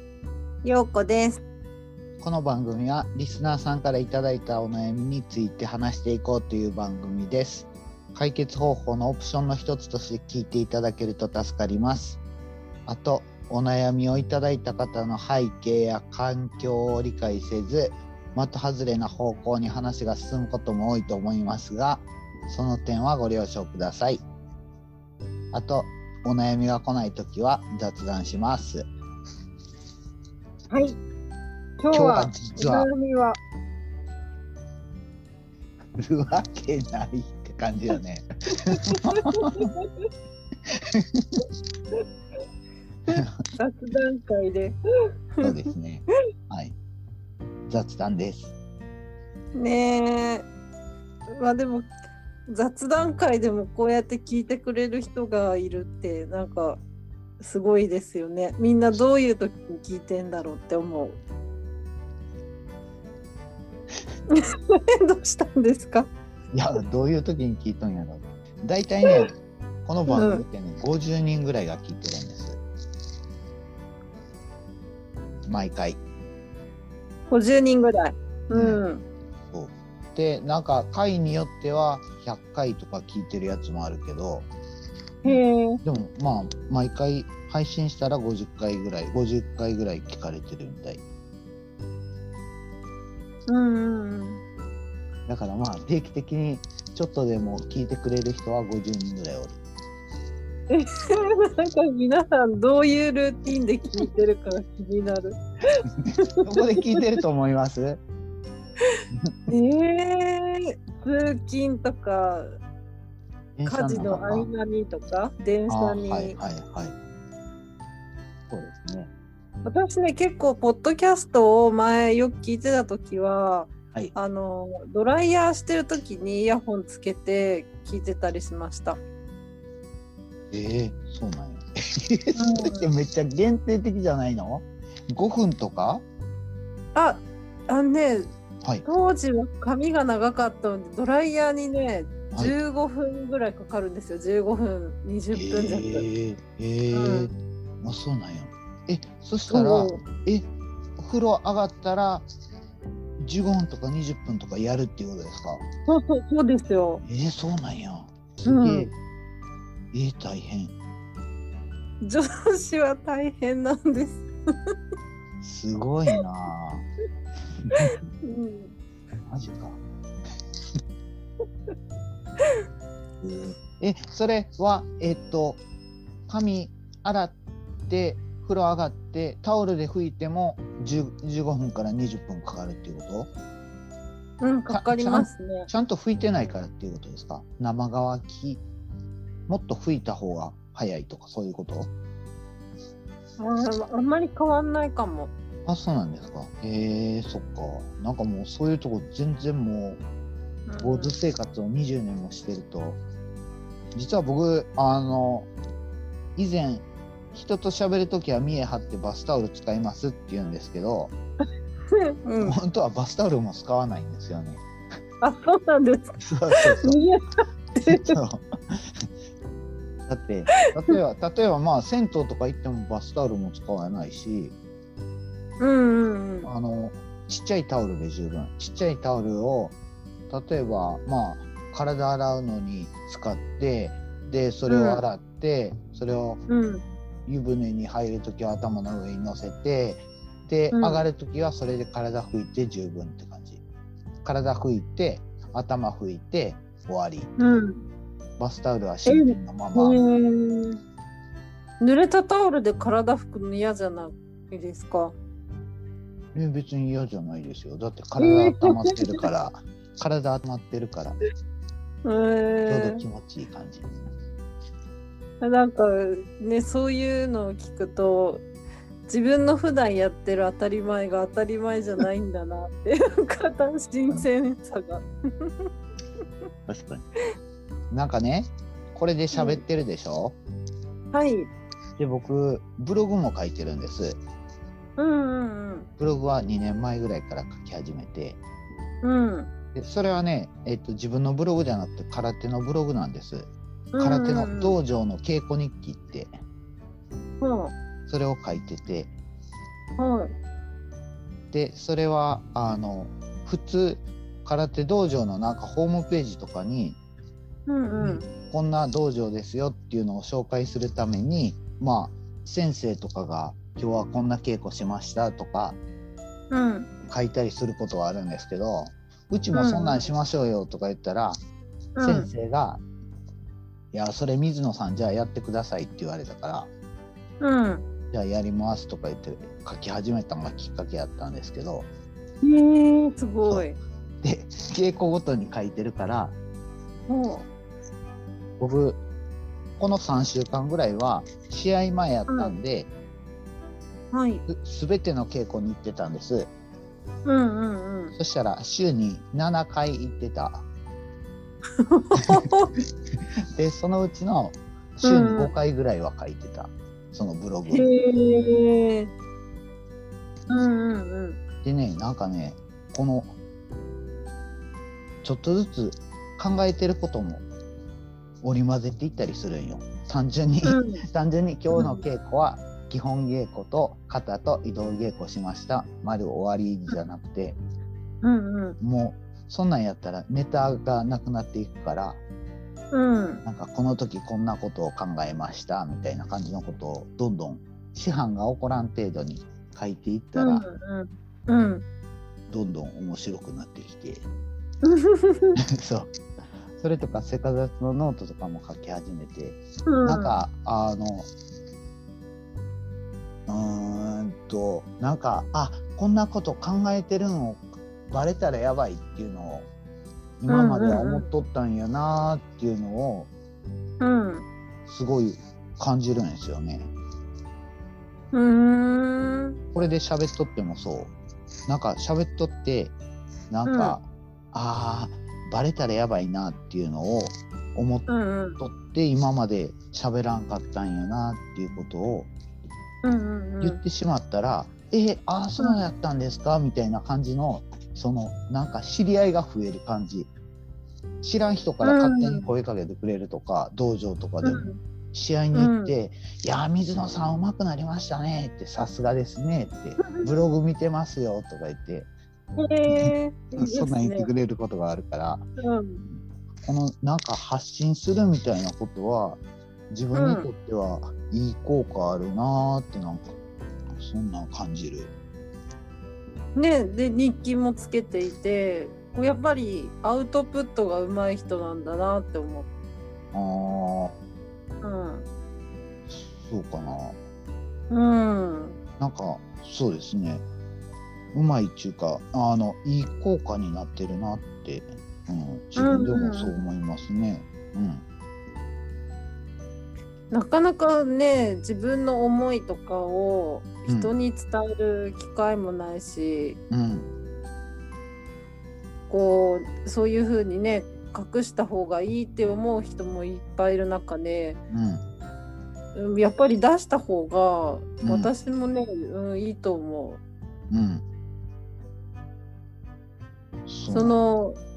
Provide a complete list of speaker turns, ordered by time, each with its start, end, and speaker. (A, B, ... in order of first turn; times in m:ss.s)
0:00.6-0:01.4 A
0:02.2-0:12.2 B
0:12.9-0:24.2 B
0:25.5-0:28.9 B
0:30.7-0:31.0 A
0:31.8-0:33.4 A
0:31.9-0:32.9 B
0:36.0-0:38.3 B
0:38.9-0:39.7 B
0:39.0-0:39.9 A
0:40.9-0:41.4 B
0:43.1-0:44.8 A
0:45.4-0:46.8 B
0:47.7-0:48.6 B
0:49.6-0:50.5 A
0:51.4-0:51.9 A
0:52.5-0:56.8 A
0:57.4-1:01.2 A
1:04.3-1:06.1 A
1:06.5-1:12.6 B
1:10.1-1:10.4 A
1:15.5-1:16.0 B
1:17.3-1:19.0 A
1:18.5-1:18.8 B
1:19.5-1:24.5 B
1:25.2-1:25.8 A
1:25.2-1:31.0 B
1:33.5-1:34.4 A
1:35.3-1:39.6 B
1:40.7-1:45.4 A
1:46.4-1:48.0 B
1:46.8-1:47.1 A
1:49.5-1:52.5 A
1:53.6-1:54.5 B
1:53.7-1:56.4 A
1:55.7-1:57.0 B
1:58.5-1:59.1 B
1:59.6-2:09.0 A
2:10.5-2:16.0 B
2:12.4-2:12.9 A
2:17.0-2:18.3 A
2:18.8-2:26.1 A
2:25.3-2:30.5 B
2:26.9-2:27.3 A
2:29.5-2:30.0 A
2:31.0-2:32.3 B
2:33.2-2:35.6 B
2:35.9-2:37.0 A
2:37.0-2:38.9 B
2:38.5-2:38.9 A
2:39.9-2:40.7 B
2:42.0-2:44.3 A
2:45.4-2:46.8 B
2:48.2-2:48.8 A
2:49.3-2:49.8 B
2:53.2-2:55.6 B
2:56.3-2:57.4 B
2:57.9-3:03.3 B
3:04.4-3:05.7 A
3:04.7-3:08.6 B
3:09.5-3:11.9 B
3:13.4-3:15.3 A
3:15.7-3:20.0 B
3:20.7-3:21.2 A
3:20.8-3:23.0 B
3:23.9-3:25.5 B
3:26.4-3:31.1 B
3:32.2-3:32.6 A
3:32.4-3:34.6 B
3:35.2-3:36.1 A
3:36.2-3:37.0 B
3:36.8-3:38.2 A
3:37.9-3:38.9 B
3:40.1-3:44.6 B
3:45.6-3:46.5 A
3:46.4-3:49.8 B
3:50.3-3:56.4 B
3:54.7-3:55.0 A
3:56.5-3:56.8 A
3:57.3-4:03.6 B
4:00.7-4:01.0 A
4:04.2-4:07.6 B
4:07.4-4:07.8 A
4:08.4-4:10.0 B
4:09.1-4:10.8 A
4:11.8-4:15.2 A
4:16.3-4:21.2 B
4:18.2-4:19.2 A
4:22.0-4:23.0 A
4:22.7-4:24.1 B
4:25.4-4:28.4 A
4:29.1-4:35.7 A
4:36.7-4:37.1 B
4:37.9-4:40.4 B
4:39.3-4:39.6 A
4:41.1-4:41.5 A
4:42.0-4:44.2 B
4:45.0-4:45.9 A
4:46.0-4:48.4 B
4:49.0-4:49.5 A
4:49.8-4:56.3 B
4:53.9-4:54.8 A
4:57.4-4:57.7 A
4:58.1-4:59.1 B
5:00.0-5:00.3 A
5:01.5-5:07.0 B
5:07.7-5:08.2 A
5:08.0-5:15.8 B
5:16.5-5:16.9 A
5:17.1-5:21.4 B
5:19.5-5:20.0 A
5:22.0-5:22.3 A
5:22.0-5:22.8 B
5:23.9-5:26.7 B
5:27.4-5:27.8 A
5:28.1-5:31.9 B
5:32.4-5:33.8 A
5:34.2-5:36.4 B
5:37.1-5:37.5 A
5:38.6-5:39.0 B
5:39.8-5:42.9 B
5:42.3-5:42.5 A
5:44.1-5:44.4 A
5:44.5-5:46.5 B
5:47.3-5:48.2 A
5:48.2-5:50.6 B
5:51.8-5:52.7 A
5:53.6-5:57.9 B
5:55.0-5:55.5 A
5:57.7-5:59.1 A
6:00.5-6:01.4 A
6:01.6-6:03.4 B
6:05.2-6:07.5 B
6:08.4-6:17.6 B
6:10.7-6:11.0 A
6:11.7-6:12.0 A
6:18.2-6:18.8 A
6:18.8-6:22.2 B
6:22.9-6:23.4 A
6:23.4-6:30.7 B
6:30.4-6:31.8 A
6:32.5-6:34.3 B
6:34.8-6:35.6 A
6:35.8-6:36.1 B
6:36.7-6:41.3 B
6:39.9-6:40.4 A
6:43.5-6:49.7 B
6:50.4-6:53.3 B
6:50.5-6:51.3 A
6:54.0-6:54.5 A
6:54.9-6:56.9 B
6:58.3-6:59.6 A
6:59.7-7:01.1 B
7:01.7-7:03.0 B
7:03.5-7:12.3 B
7:03.7-7:04.0 A
7:08.1-7:08.6 A
7:13.0-7:13.8 A
7:13.6-7:20.3 B
7:15.6-7:15.9 A
7:21.2-7:32.1 B
7:21.8-7:22.4 A
7:24.4-7:24.8 A
7:25.5-7:25.9 A
7:30.0-7:30.3 A
7:32.6-7:34.3 A
7:32.9-7:35.5 B
7:35.6-7:36.0 A
7:36.6-7:43.3 B
7:40.2-7:40.5 A
7:44.0-7:45.1 B
7:46.6-7:52.7 A
7:53.3-7:54.2 B
7:54.8-7:55.3 A
7:56.2-7:57.2 B
7:57.9-7:58.8 A
7:59.0-8:00.4 B
8:01.3-8:08.0 B
8:05.8-8:06.5 A
8:10.3-8:16.6 A
8:16.7-8:17.1 B
8:19.1-8:24.6 A
8:24.7-8:25.0 B
8:26.0-8:30.2 A
8:28.0-8:28.3 B
8:30.7-8:31.0 B
8:33.7-8:34.2 B
8:33.9-8:34.6 A